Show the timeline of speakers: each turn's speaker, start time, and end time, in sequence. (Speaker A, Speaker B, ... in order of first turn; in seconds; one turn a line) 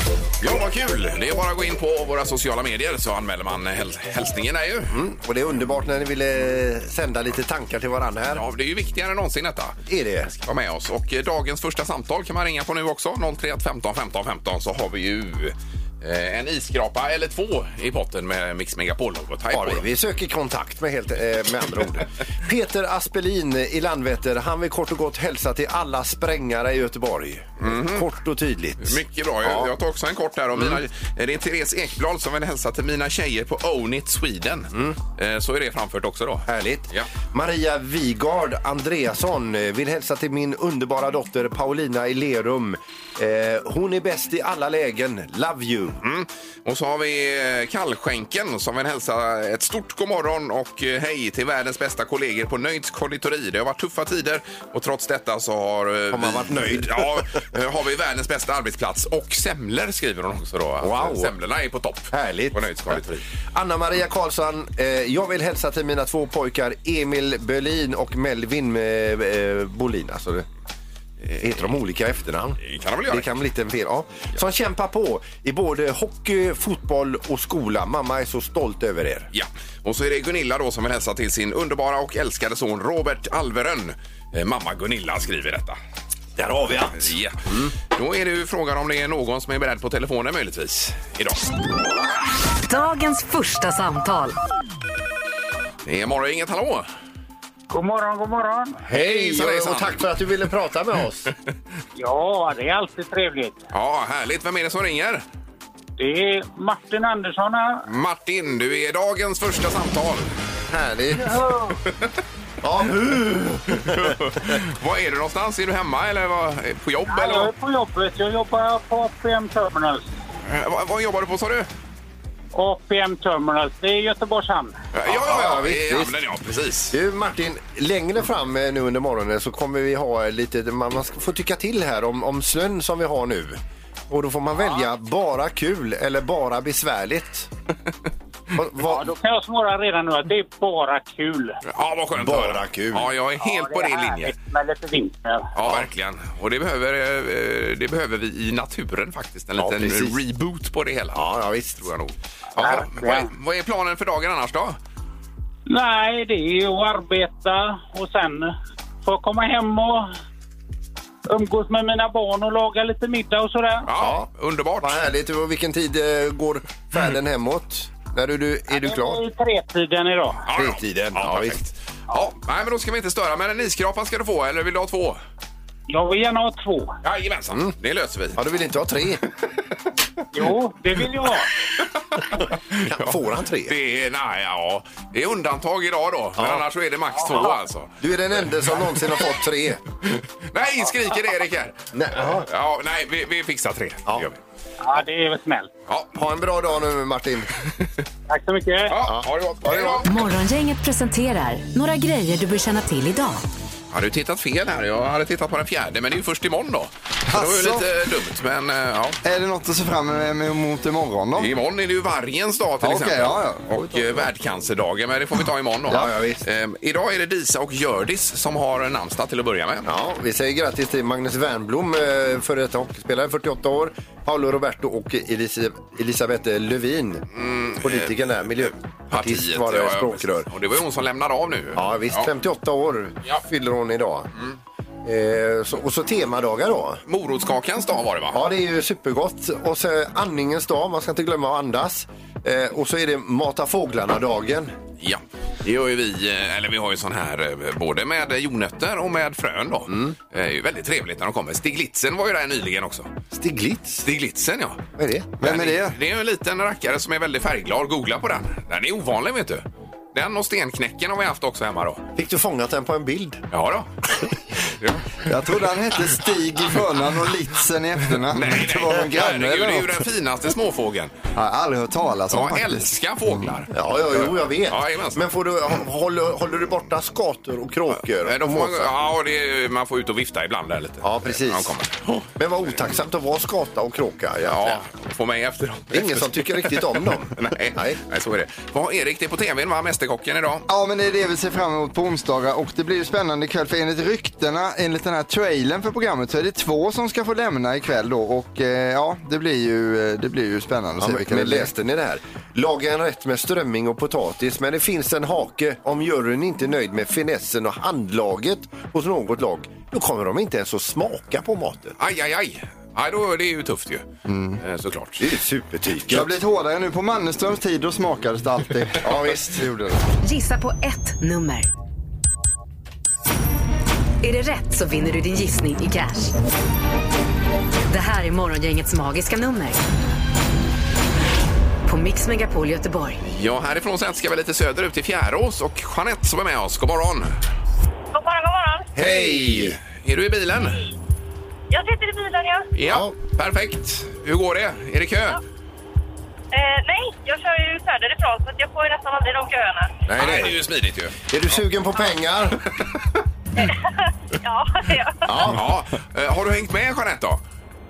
Speaker A: 0.4-4.9
Speaker B: 4.9-8.4
Speaker A: 8.3-9.8
Speaker B: 9.8-10.3
Speaker A: 10.3-19.8
Speaker B: 19.5-29.7
Speaker A: 27.6-28.1
Speaker A: 28.8-37.1
Speaker B: 34.7-35.0
Speaker B: 36.5-46.0
Speaker A: 46.0-63.2
Speaker B: 56.1-57.3
Speaker B: 60.8-61.3
Speaker B: 62.1-70.5
Speaker B: 71.3-79.3
Speaker A: 72.6-73.3
Speaker A: 79.3-85.8
Speaker B: 86.3-87.7
Speaker A: 86.9-91.5
Speaker C: 92.7-94.4
Speaker A: 95.8-96.8
Speaker D: 97.7-98.8
Speaker B: 98.8-101.3
Speaker A: 98.9-100.0
Speaker D: 102.0-103.6
Speaker A: 103.7-105.2
Speaker D: 106.0-107.8
Speaker A: 107.9-110.3
Speaker B: 110.7-111.5
Speaker B: 112.6-114.2
Speaker A: 113.7-117.5
Speaker D: 117.1-120.0
Speaker A: 120.5-121.7
Speaker D: 122.5-124.8
Speaker A: 124.9-126.9
Speaker B: 125.0-126.1
Speaker B: 126.9-137.5
Speaker B: 138.5-139.1
Speaker D: 138.8-141.6
Speaker A: 141.7-144.3
Speaker B: 142.1-143.1
Speaker D: 143.4-145.5
Speaker A: 145.5-151.2
Speaker B: 149.6-150.2
Speaker B: 151.1-151.9
Speaker A: 151.9-154.8
Speaker D: 152.6-153.3
Speaker D: 155.7-160.1
Speaker D: 161.3-163.9
Speaker A: 163.9-165.0
Speaker B: 164.0-164.3
Speaker B: 164.8-169.2
Speaker D: 168.7-170.4
Speaker A: 170.4-175.2
Speaker B: 170.5-171.7
Speaker D: 175.9-176.9
Speaker A: 177.0-178.4
Speaker B: 178.3-179.2
Speaker D: 180.3-181.5
Speaker A: 182.1-187.9
Speaker B: 182.8-183.7
Speaker B: 186.3-186.6
Speaker B: 188.0-189.8
Speaker A: 190.1-194.4
Speaker B: 191.9-192.5
Speaker D: 194.8-195.7
Speaker B: 196.1-197.5
Speaker D: 198.3-198.9
Speaker A: 198.9-200.1
Speaker B: 199.0-200.0
Speaker C: 200.0-203.4
Speaker A: 203.9-209.2
Speaker E: 207.3-207.9
Speaker E: 209.2-211.5
Speaker A: 211.4-219.9
Speaker E: 212.8-214.2
Speaker B: 215.9-216.4
Speaker B: 219.8-227.2
Speaker A: 227.3-232.3
Speaker B: 227.8-230.5
Speaker B: 231.7-234.3
Speaker B: 235.0-237.0
Speaker A: 237.1-238.4
Speaker B: 238.3-244.7
Speaker A: 245.0-253.1
Speaker B: 249.9-250.2
Speaker B: 253.3-254.1
Speaker A: 254.0-254.8
Speaker B: 255.0-255.3
Speaker E: 255.4-255.9
Speaker A: 255.4-262.0
Speaker B: 262.1-263.4
Speaker A: 263.5-263.9
Speaker E: 265.2-270.1
Speaker A: 268.3-271.1
Speaker E: 271.3-273.4
Speaker A: 272.3-275.2
Speaker B: 273.7-278.9
Speaker A: 278.2-282.3
Speaker B: 281.0-281.7
Speaker B: 282.4-284.8
Speaker A: 284.5-290.7
Speaker B: 285.9-288.0
Speaker E: 290.7-301.7
Speaker B: 301.0-311.9
Speaker A: 312.0-314.1
Speaker E: 314.3-314.6
Speaker A: 314.6-315.2
Speaker B: 315.2-316.3
Speaker E: 316.1-320.0
Speaker B: 319.0-319.6
Speaker C: 320.2-321.7
Speaker C: 324.2-326.3
Speaker C: 327.9-329.8
Speaker C: 331.8-333.2
Speaker A: 333.2-337.4
Speaker F: 338.1-338.9
Speaker B: 338.9-339.8
Speaker A: 339.0-340.9
Speaker F: 341.7-342.7
Speaker A: 342.7-345.4
Speaker B: 342.8-343.1
Speaker F: 346.5-350.0
Speaker B: 350.1-350.6
Speaker A: 350.1-351.2
Speaker B: 351.3-352.6
Speaker F: 353.6-355.2
Speaker B: 355.2-355.7
Speaker A: 355.4-357.4